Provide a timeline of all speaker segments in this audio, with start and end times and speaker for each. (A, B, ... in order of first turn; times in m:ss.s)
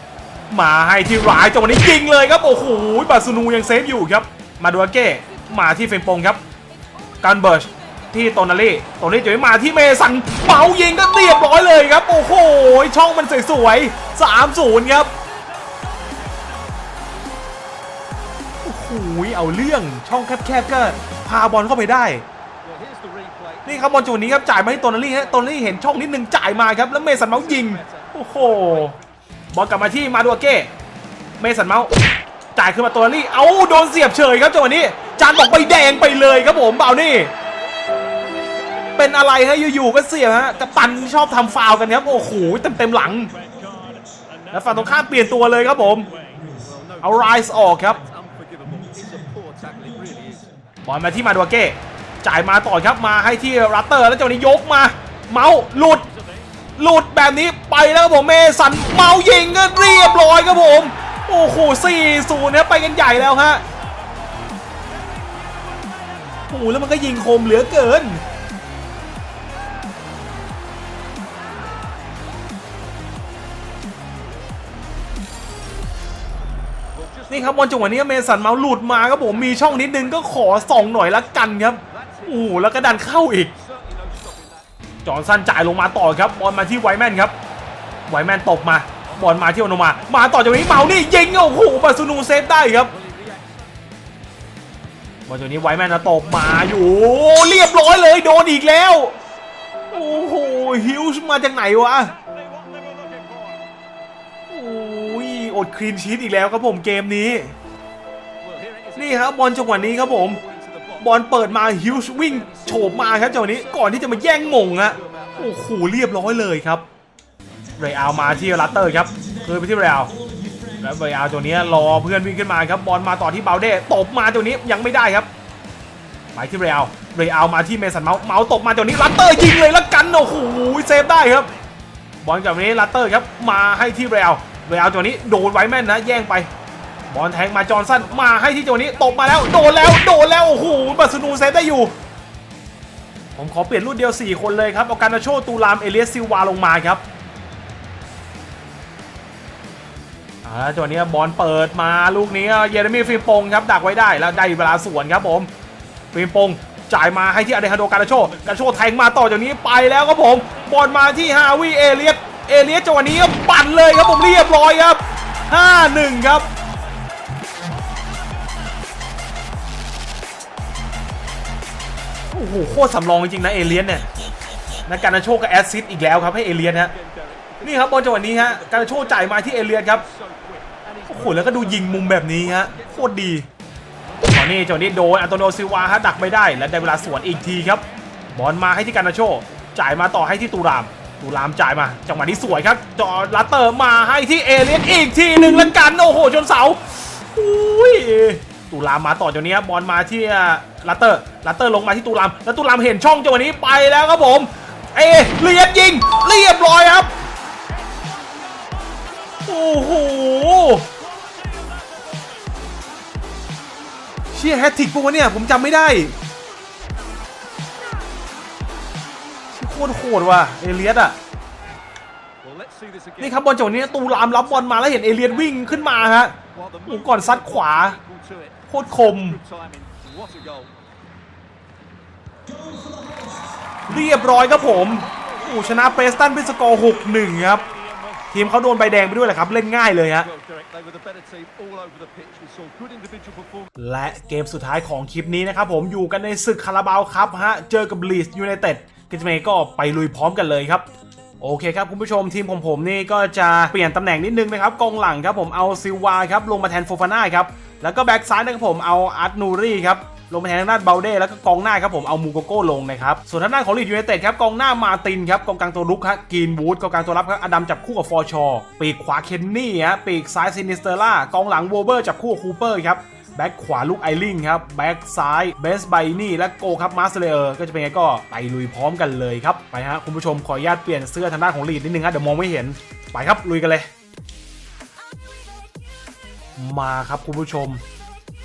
0:00.5-0:06.4 A
0:07.2-0:15.1 A
0:18.6-0:22.2 A
0:22.7-0:23.6 B
0:23.7-0:29.0 A
0:29.5-0:30.7 A
0:31.4-0:31.9 A
0:32.6-0:37.3 A
0:39.0-0:43.4 A
0:44.5-0:46.1 A
0:47.0-0:48.0 A
0:48.0-0:50.5 B
0:50.8-0:56.1 A
0:56.8-1:03.6 A
1:06.5-1:08.2 A
1:17.3-1:23.6 A
1:23.8-1:24.5 B
1:25.0-1:27.4 A
1:28.1-1:32.9 A
1:33.0-1:33.5 B
1:35.3-1:39.2 A
1:39.9-1:42.2 A
1:42.6-1:43.6 B
1:44.5-1:47.6 A
1:48.4-1:49.0 B
1:49.0-1:50.4 A
1:51.0-1:56.8 A
1:57.8-2:00.1 A
2:00.8-2:05.3 A
2:06.4-2:11.5 A
2:12.2-2:16.5 A
2:17.1-2:21.9 A
2:23.4-2:27.0 A
2:30.4-2:35.5 A
2:36.1-2:46.5 A
2:52.3-2:54.1 A
2:54.9-2:56.9 A
2:57.6-3:00.1 A
3:01.1-3:03.5 A
3:04.3-3:07.8 A
3:08.4-3:27.1 A
3:29.5-3:30.9 A
3:34.3-3:36.2 A
3:39.5-3:41.2 A
3:42.4-3:43.2 B
3:43.2-3:48.0 A
3:48.0-3:48.4 B
3:48.7-3:49.4 A
3:49.7-3:50.7 B
3:53.9-3:57.6 A
3:58.3-4:00.3 A
4:00.4-4:03.5 B
4:03.8-4:10.9 A
4:11.4-4:43.9 A
4:46.6-4:47.8 A